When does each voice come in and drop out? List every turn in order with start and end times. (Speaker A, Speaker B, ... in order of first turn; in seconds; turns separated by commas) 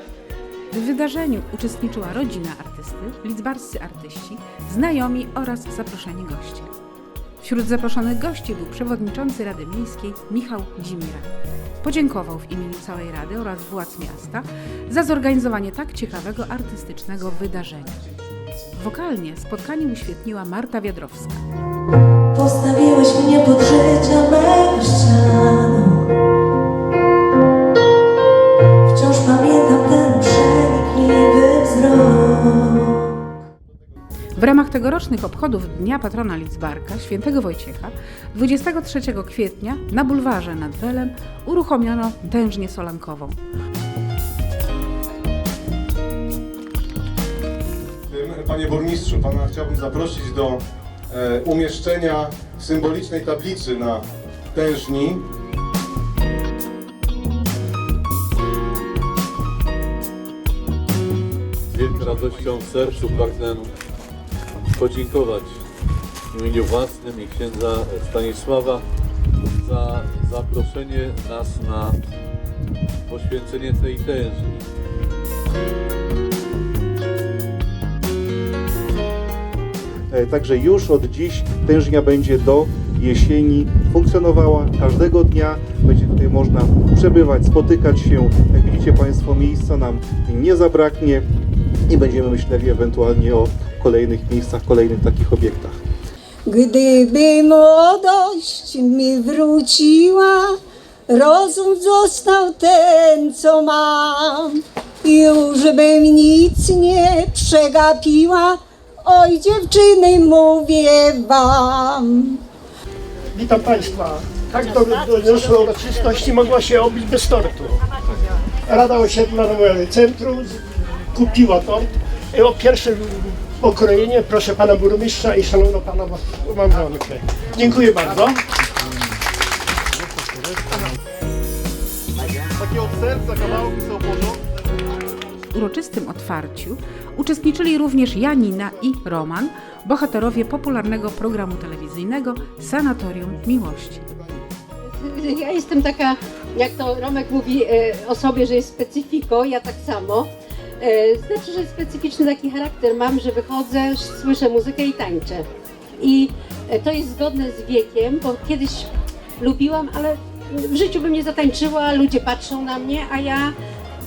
Speaker A: 0.7-6.7, Speaker A: 7.4-11.3, Speaker A: 11.8-18.0, Speaker A: 18.7-21.4, Speaker B: 22.3-26.1, Speaker B: 28.9-33.0, Speaker A: 34.4-43.4, Speaker C: 48.1-50.6, Speaker C: 51.1-55.2, Speaker D: 61.7-63.7, Speaker D: 64.8-65.6, Speaker D: 66.3-68.8, Speaker D: 69.6-72.0, Speaker D: 73.1-74.6, Speaker E: 80.1-91.2, Speaker E: 91.9-95.8, Speaker F: 96.5-100.5, Speaker F: 101.1-112.4, Speaker G: 113.3-117.8, Speaker G: 118.6-120.6, Speaker G: 121.1-128.4, Speaker A: 135.5-144.1, Speaker H: 144.8-155.5, Speaker H: 156.0-163.5